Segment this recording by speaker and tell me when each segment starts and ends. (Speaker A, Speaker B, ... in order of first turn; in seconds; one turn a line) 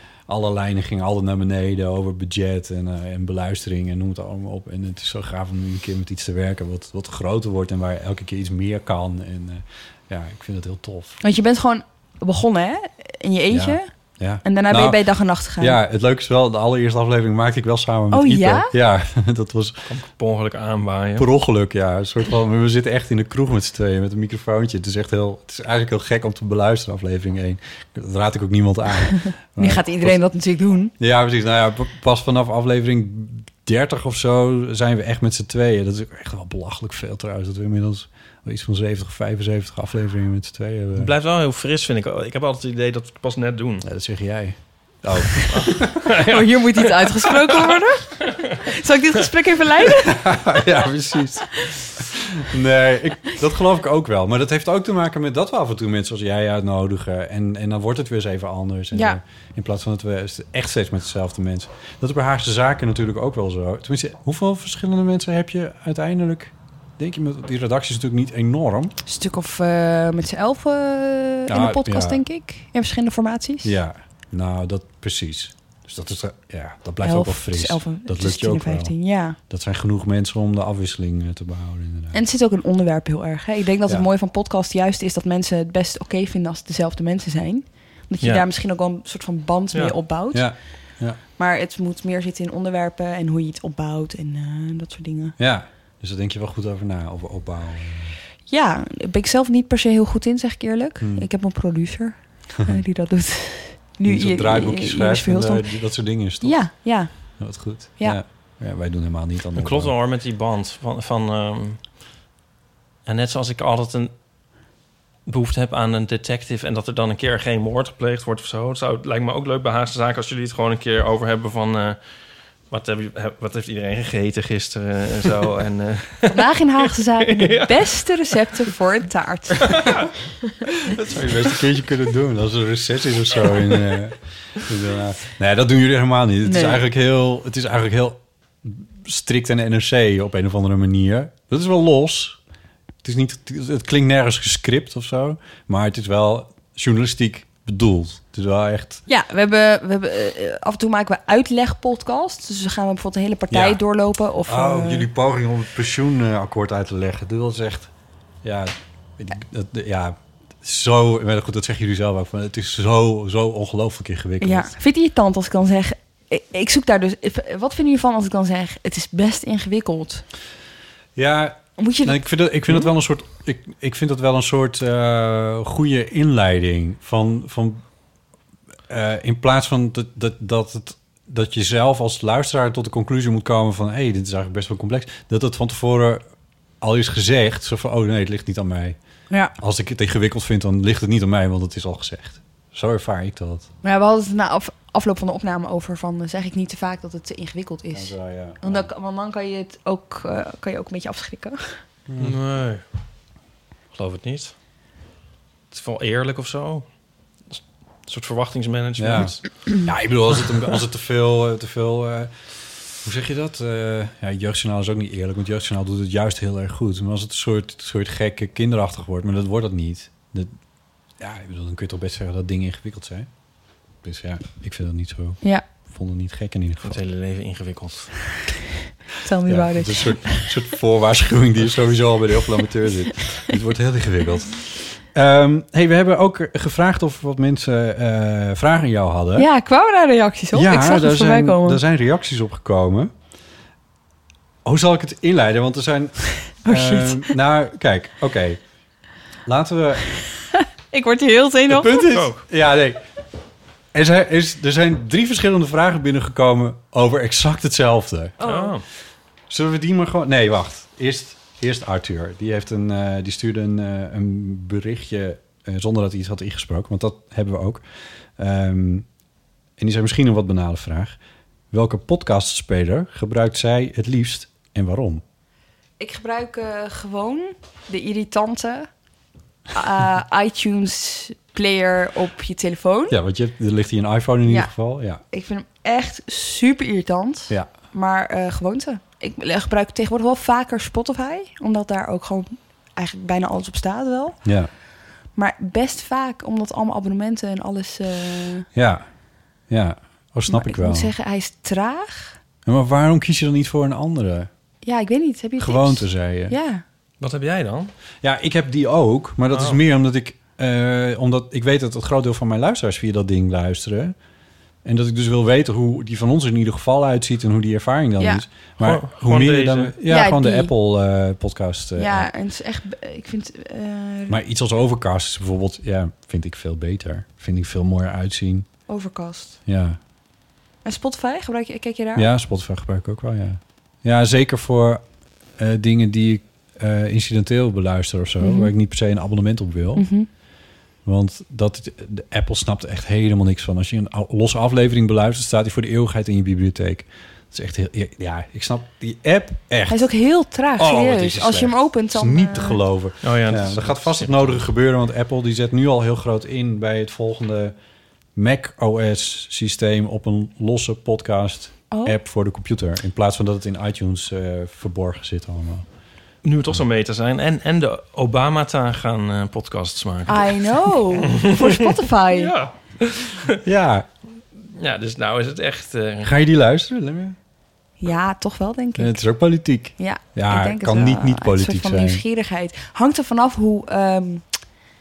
Speaker A: 0.3-11.2
Speaker B: 11.2-13.9
Speaker A: 13.5-19.8
Speaker B: 14.4-15.8
Speaker B: 18.1-18.7
Speaker C: 19.9-21.3
Speaker A: 21.2-30.2
Speaker B: 29.6-30.9
Speaker A: 31.0-41.1
Speaker C: 41.0-43.8
Speaker A: 43.8-46.1
Speaker C: 45.5-46.9
Speaker B: 46.1-50.4
Speaker A: 50.0-68.9
Speaker B: 58.9-59.2
Speaker B: 69.0-73.7
Speaker A: 71.5-72.2
Speaker A: 73.6-82.2
Speaker B: 77.0-79.4
Speaker B: 82.1-90.6
Speaker A: 90.3-91.2
Speaker B: 91.4-95.4
Speaker A: 95.4-98.2
Speaker B: 98.5-105.7
Speaker A: 101.0-101.3
Speaker A: 104.0-109.9
Speaker B: 106.4-108.2
Speaker C: 109.5-111.8
Speaker C: 113.0-114.1
Speaker C: 115.3-122.0
Speaker C: 122.7-126.4
Speaker B: 126.3-129.7
Speaker C: 127.2-128.4
Speaker A: 130.9-142.4
Speaker C: 131.0-131.5
Speaker B: 136.4-136.8
Speaker A: 143.0-149.0
Speaker B: 149.1-155.1
Speaker A: 153.5-153.8
Speaker A: 154.4-157.9
Speaker A: 158.4-164.7
Speaker B: 164.4-170.2
Speaker A: 171.2-177.8
Speaker B: 171.8-172.2
Speaker A: 178.9-186.2
Speaker A: 186.8-189.0
Speaker B: 189.3-189.6
Speaker A: 189.6-193.7
Speaker B: 193.8-201.8
Speaker A: 197.9-198.8
Speaker A: 202.1-202.4
Speaker C: 202.2-202.8
Speaker C: 203.9-204.5
Speaker C: 205.7-206.9
Speaker C: 207.5-209.4
Speaker A: 209.0-212.3
Speaker A: 213.0-220.6
Speaker A: 221.2-223.3
Speaker A: 224.0-227.0
Speaker C: 226.8-228.3
Speaker B: 229.2-230.5
Speaker A: 229.5-239.5
Speaker B: 239.4-241.8
Speaker A: 240.5-243.1
Speaker A: 244.6-248.6
Speaker B: 246.5-247.3
Speaker A: 249.4-250.1
Speaker B: 250.9-252.1
Speaker A: 251.7-253.0
Speaker C: 252.1-252.4
Speaker A: 253.9-258.4
Speaker B: 258.4-258.7
Speaker C: 258.4-258.8
Speaker A: 259.5-267.8
Speaker A: 268.4-269.1
Speaker A: 269.8-271.2
Speaker A: 271.7-275.2
Speaker B: 276.0-278.9
Speaker B: 279.7-283.1
Speaker A: 283.1-285.2
Speaker B: 284.4-284.7
Speaker B: 285.3-294.4
Speaker A: 294.4-294.7
Speaker B: 295.3-298.7
Speaker A: 298.7-299.1
Speaker A: 299.7-301.1
Speaker B: 300.5-302.4
Speaker A: 302.6-304.5
Speaker B: 304.8-306.8
Speaker A: 305.6-306.6
Speaker C: 307.2-307.9
Speaker A: 308.2-314.1
Speaker C: 309.5-309.8
Speaker A: 314.8-322.3
Speaker B: 318.2-318.4
Speaker C: 318.8-319.9
Speaker B: 320.1-320.7
Speaker B: 322.0-324.4
Speaker A: 324.3-328.7
Speaker B: 328.9-329.6
Speaker A: 329.6-330.0
Speaker B: 330.8-332.3
Speaker A: 332.1-335.0
Speaker A: 335.6-340.1
Speaker B: 338.4-338.7
Speaker B: 339.9-340.3
Speaker A: 341.1-350.1
Speaker B: 349.9-352.8
Speaker A: 350.8-357.7
Speaker C: 353.2-354.6
Speaker A: 358.4-365.9
Speaker B: 361.9-362.2
Speaker C: 366.4-370.9
Speaker B: 370.3-372.5
Speaker C: 372.3-373.5
Speaker A: 373.6-374.1
Speaker C: 374.8-376.3
Speaker A: 376.2-377.4
Speaker B: 378.0-379.2
Speaker A: 379.0-382.2
Speaker B: 380.0-384.4